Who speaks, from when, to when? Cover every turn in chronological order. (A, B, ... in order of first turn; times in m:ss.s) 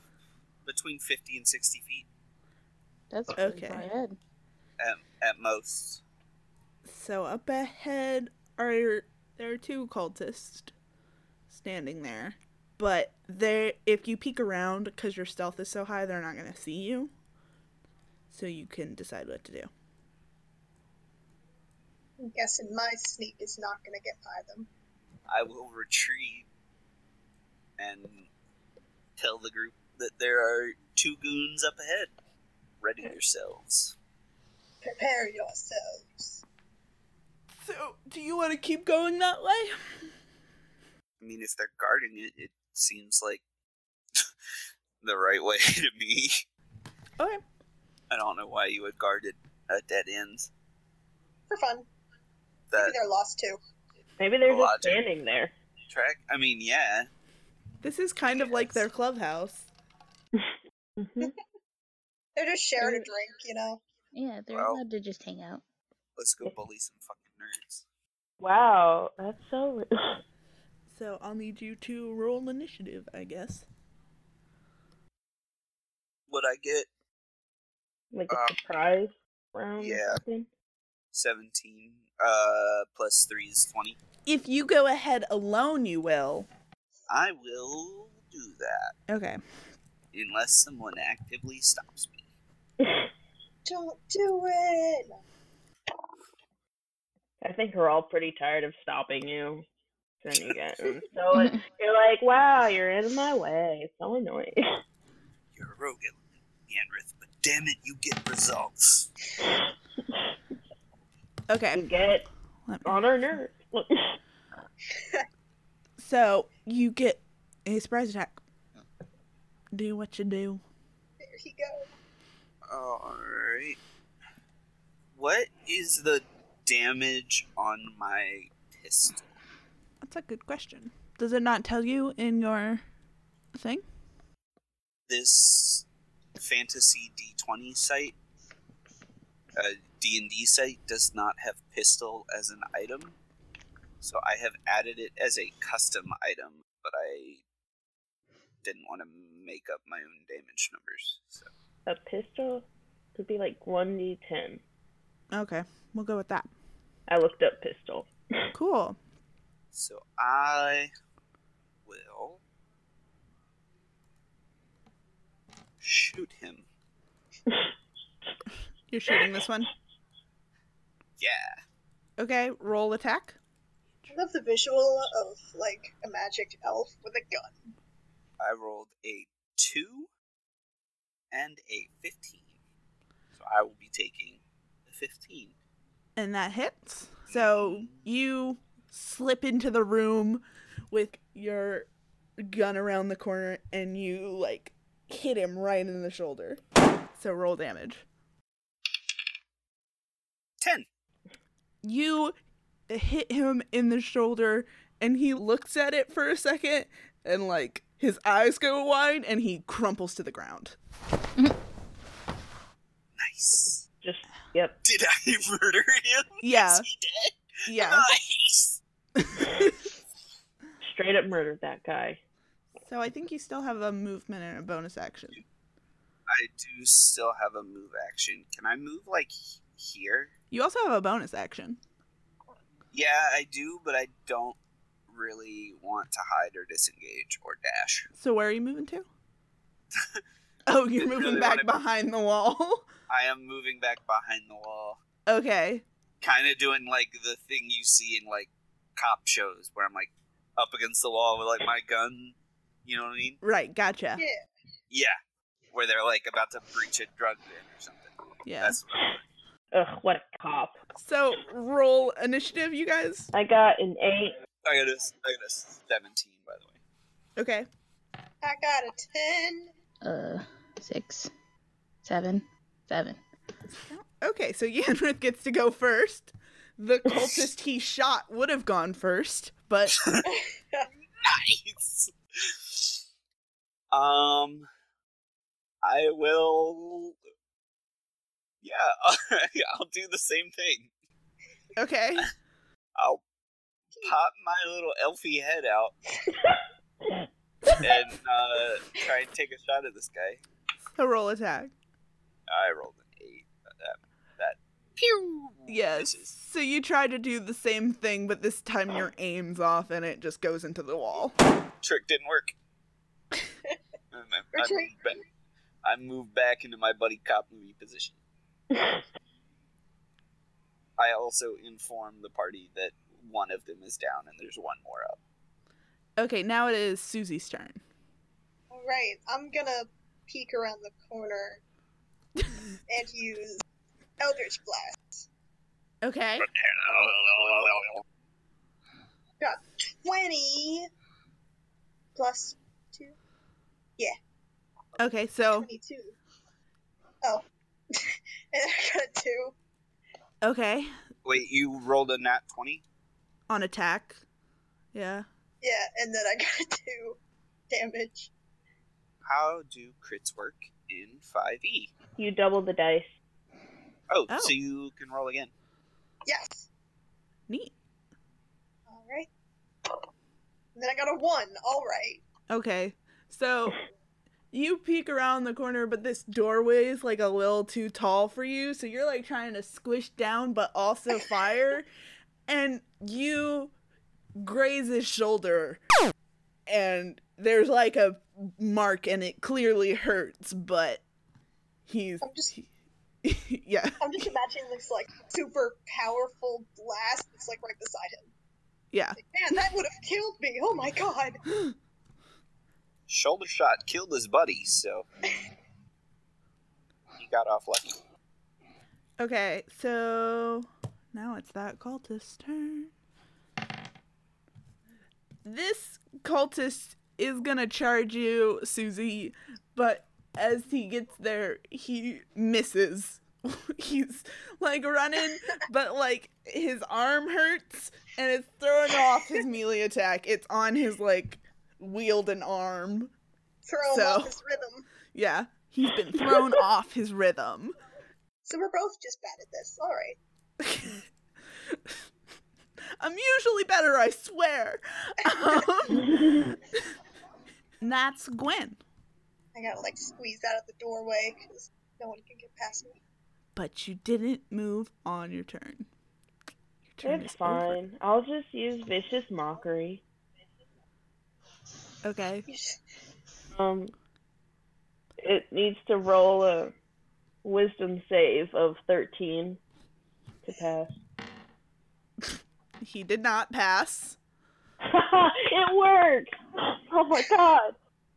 0:00.6-0:02.1 A
0:03.1-0:04.2 B
0:03.4-0:03.9 C
0:04.8-0:06.0 A
0:06.8-0:10.7 C
0:11.5-0:17.1 C
0:18.3-0:19.7 C
0:22.2-0:24.7 D
0:25.3-0:26.5 A
0:27.8-0:28.3 A
0:29.2-0:32.1 A
0:32.8-0:34.0 A
0:34.8-0:36.4 D
0:37.6-0:39.8 C
0:41.2-0:43.4 A
0:45.0-0:46.4 A
0:48.1-0:50.5 A
0:51.5-0:51.9 D
0:52.7-0:53.0 A
0:52.8-0:53.6 D
0:54.2-0:55.5 E
0:54.5-0:55.0 A
0:55.9-0:57.1 A
0:57.8-0:59.7 C
1:00.4-1:01.3 E
1:02.4-1:03.8 D
1:02.8-1:03.1 E
1:04.1-1:05.6 B
1:04.5-1:04.8 A
1:06.2-1:07.8 A
1:08.4-1:10.2 E
1:10.9-1:13.6 C
1:16.3-1:16.9 A
1:18.1-1:20.5 E
1:18.3-1:18.6 A
1:19.8-1:20.2 A
1:21.1-1:24.0 A
1:24.3-1:26.5 C
1:27.1-1:29.0 A
1:29.1-1:29.4 C
1:30.1-1:32.2 A
1:32.8-1:33.1 E
1:33.7-1:35.2 D
1:37.4-1:39.6 E
1:40.2-1:44.8 E
1:41.3-1:41.6 B
1:45.5-1:49.1 A
1:51.5-1:51.8 C
1:51.7-1:52.3 E
1:52.7-1:53.0 C
1:52.8-1:54.2 E
1:55.0-1:55.3 D
1:56.0-1:58.4 C
1:59.7-2:00.6 C
2:01.2-2:01.9 D
2:02.7-2:03.8 A
2:05.1-2:09.3 A
2:10.0-2:12.8 C
2:13.6-2:13.8 C
2:15.1-2:15.8 A
2:16.4-2:18.2 A
2:19.5-2:23.2 A
2:24.0-2:27.4 A
2:28.6-2:31.5 A
2:31.9-2:34.6 E
2:35.3-2:36.5 C
2:37.1-2:38.1 E
2:38.5-2:39.0 C
2:39.7-2:40.9 A
2:41.9-2:42.4 A
2:45.8-2:46.6 A
2:48.9-2:49.7 C
2:51.2-2:51.6 A
2:52.2-2:53.4 C
2:54.1-2:57.7 D
2:58.4-3:00.1 A
3:01.3-3:02.5 A
3:03.3-3:05.5 A
3:06.2-3:16.6 C
3:07.3-3:08.0 A
3:17.2-3:18.0 C
3:20.6-3:20.9 A
3:21.8-3:22.4 C
3:22.9-3:30.8 C
3:33.2-3:33.8 A
3:34.0-3:34.8 E
3:34.8-3:38.8 A
3:36.4-3:36.9 C
3:37.7-3:38.1 C
3:39.2-3:39.8 C
3:40.8-3:42.2 E
3:42.8-3:45.4 C
3:46.3-3:50.3 A
3:50.5-3:51.8 C
3:52.9-3:58.1 A
3:58.2-3:59.1 C
4:00.0-4:00.2 A
4:00.7-4:02.9 C
4:01.0-4:01.7 A
4:03.1-4:05.0 A
4:05.3-4:05.8 C
4:06.2-4:13.4 A
4:13.4-4:14.2 C
4:14.9-4:15.2 A
4:15.7-4:19.2 A
4:18.4-4:18.8 C
4:19.7-4:20.8 E
4:21.0-4:23.3 C
4:23.3-4:24.4 E
4:24.6-4:26.8 A
4:27.4-4:27.7 C
4:28.4-4:29.7 D
4:30.0-4:31.3 B
4:32.0-4:33.2 B
4:33.9-4:40.0 C
4:40.0-4:40.2 A
4:40.2-4:40.9 D
4:41.2-4:43.0 A
4:43.9-4:44.7 A
4:45.8-4:47.2 A
4:48.6-4:50.9 A
4:51.8-4:52.3 C
4:53.0-4:53.2 A
4:54.0-4:56.0 A
4:56.4-4:57.8 E
4:57.8-5:00.4 A
5:01.0-5:01.7 C
5:02.5-5:06.4 A
5:05.7-5:11.4 C
5:11.8-5:12.6 A
5:14.1-5:15.2 A
5:14.6-5:15.2 D
5:15.8-5:18.2 A
5:18.7-5:19.0 E
5:21.0-5:25.2 A
5:26.2-5:27.8 C
5:28.7-5:31.6 D
5:32.9-5:33.6 D
5:34.2-5:35.2 D
5:36.0-5:36.5 C
5:36.4-5:38.0 A
5:39.4-5:40.9 D
5:42.2-5:43.2 D
5:45.0-5:45.7 C
5:45.5-5:46.2 D
5:47.2-5:49.6 D
5:50.4-5:50.9 C
5:51.2-5:52.8 A
5:53.5-5:54.2 C
5:54.9-5:55.3 C
5:55.6-5:57.2 D
5:57.7-5:58.3 D
5:59.2-6:01.9 A
6:02.2-6:03.1 E
6:04.1-6:05.5 A
6:04.3-6:04.6 C
6:06.3-6:06.7 D
6:07.5-6:07.8 C
6:08.9-6:09.3 D
6:10.8-6:12.2 D
6:12.5-6:13.8 C
6:14.5-6:21.9 C
6:22.5-6:23.7 C
6:24.4-6:25.8 C
6:26.7-6:31.0 C
6:31.9-6:32.7 C
6:32.2-6:32.6 D
6:33.2-6:34.2 C
6:34.0-6:38.3 D
6:38.9-6:39.2 C
6:39.2-6:41.4 D
6:41.5-6:41.7 C
6:43.1-6:45.1 A
6:47.2-6:48.0 A
6:49.2-6:52.9 C
6:55.4-7:13.1 C
7:13.6-7:14.9 D
7:13.9-7:14.3 C
7:15.1-7:17.8 C
7:18.4-7:20.2 D
7:20.6-7:21.0 C
7:23.0-7:26.5 C
7:27.8-7:28.8 C
7:29.6-7:33.0 D
7:33.6-7:35.9 C
7:37.0-7:37.8 C
7:37.0-7:40.0 E
7:42.0-7:42.5 C
7:42.5-7:42.8 D
7:43.5-7:43.9 E
7:45.2-7:46.7 E
7:47.4-7:49.6 E
7:50.4-7:51.0 E
7:52.8-7:54.2 C
7:54.8-7:57.8 E